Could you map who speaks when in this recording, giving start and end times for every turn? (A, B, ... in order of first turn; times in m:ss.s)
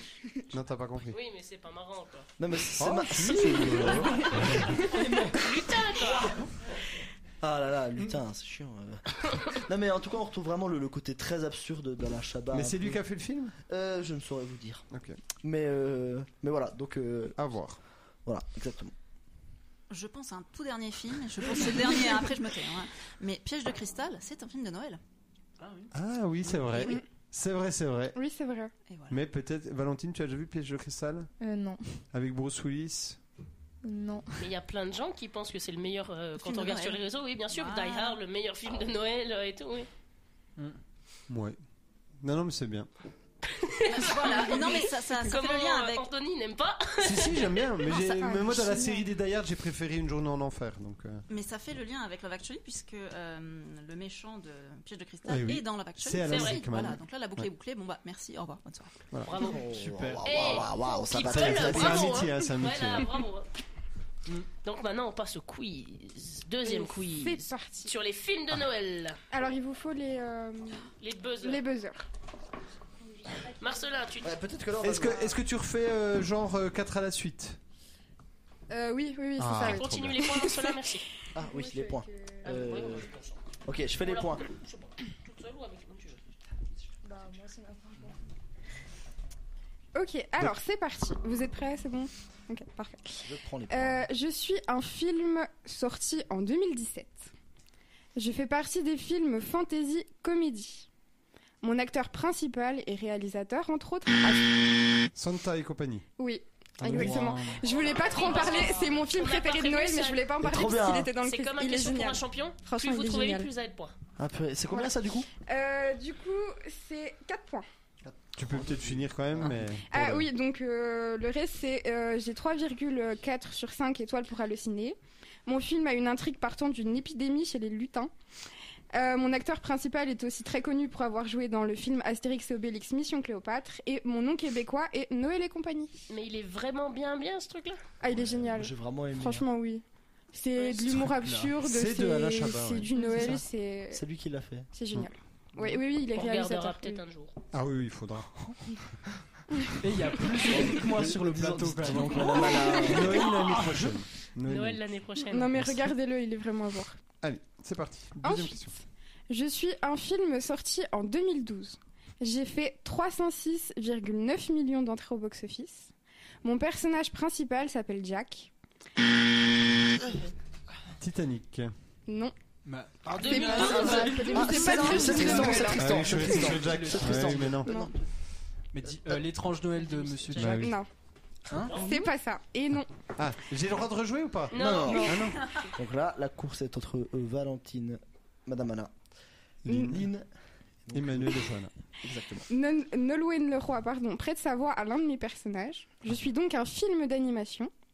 0:00.5-0:01.2 A
0:01.1-0:02.3 B
0:02.4-0:04.6 C
0:02.8-0:04.8 A
0:03.9-0:06.4 B
0:04.8-0:05.4 D
0:07.4-0:13.0 C
0:12.5-0:13.5 A
0:13.6-0:14.9 C
0:14.9-0:15.2 A
0:15.4-0:17.4 C
0:17.4-0:17.8 A
0:18.2-0:18.9 C
0:19.9-0:25.0 E
0:25.6-0:25.9 D
0:25.9-0:28.2 A
0:26.8-0:27.0 F
0:28.2-0:28.7 F
0:28.9-0:29.2 E
0:29.1-0:31.3 A
0:31.4-0:32.0 G
0:32.1-0:33.2 A
0:33.8-0:34.4 G
0:34.4-0:39.9 B
0:36.4-0:38.2 E
0:41.3-0:41.6 A
0:42.2-0:42.9 A
0:43.4-0:47.9 B
0:43.9-0:46.0 E
0:44.3-0:45.3 F
0:47.0-0:51.2 A
0:47.9-0:49.1 F
0:51.3-0:59.0 E
0:55.2-0:57.5 A
0:56.3-0:56.6 B
0:59.2-0:59.6 B
0:59.4-1:02.2 C
0:59.7-1:00.2 D
1:00.2-1:03.5 B
1:01.2-1:03.1 A
1:04.6-1:09.2 B
1:06.6-1:07.9 F
1:09.3-1:10.9 F
1:11.0-1:11.6 B
1:11.4-1:12.0 F
1:13.6-1:14.4 B
1:14.2-1:15.4 C
1:14.8-1:17.6 A
1:18.7-1:20.8 F
1:19.4-1:20.3 A
1:19.6-1:21.1 B
1:21.3-1:23.1 C
1:21.4-1:22.3 F
1:22.4-1:23.4 B
1:23.6-1:24.4 C
1:24.0-1:26.2 B
1:27.0-1:28.2 G
1:29.9-1:37.3 F
1:33.2-1:34.1 C
1:38.2-1:40.9 F
1:41.6-1:44.6 F
1:45.1-1:46.1 A
1:46.2-1:53.5 F
1:46.8-1:47.6 A
1:46.9-1:47.5 C
1:47.7-1:50.3 B
1:50.4-1:51.1 C
1:51.2-1:53.9 B
1:54.2-1:55.3 C
1:55.4-1:57.6 F
1:58.0-1:59.5 C
1:58.3-2:00.3 A
1:59.9-2:08.1 F
2:08.9-2:16.0 F
2:16.1-2:17.8 B
2:18.0-2:24.0 F
2:18.1-2:19.4 C
2:20.8-2:21.5 D
2:21.6-2:23.4 A
2:23.9-2:24.7 C
2:24.7-2:27.0 F
2:26.1-2:27.4 B
2:27.5-2:28.3 A
2:29.8-2:32.9 D
2:30.3-2:33.3 C
2:32.4-2:34.8 A
2:34.5-2:35.5 B
2:35.3-2:37.0 F
2:35.5-2:35.8 A
2:37.2-2:38.7 A
2:38.2-2:45.9 F
2:46.4-2:48.5 F
2:51.0-2:51.7 A
2:52.1-2:52.3 F
2:52.6-2:57.6 D
2:53.2-2:54.2 B
2:53.2-2:55.8 F
2:53.3-2:55.5 G
2:54.2-2:58.0 C
2:55.7-2:57.7 A
2:57.6-2:57.9 F
2:58.7-3:00.8 D
3:00.3-3:00.8 A
3:00.4-3:00.9 F
3:01.5-3:01.8 D
3:01.7-3:02.9 F
3:03.2-3:05.5 A
3:04.5-3:05.6 B
3:04.5-3:08.9 C
3:09.6-3:10.0 A
3:09.7-3:10.3 C
3:10.8-3:12.5 C
3:10.9-3:11.7 A
3:12.5-3:17.7 F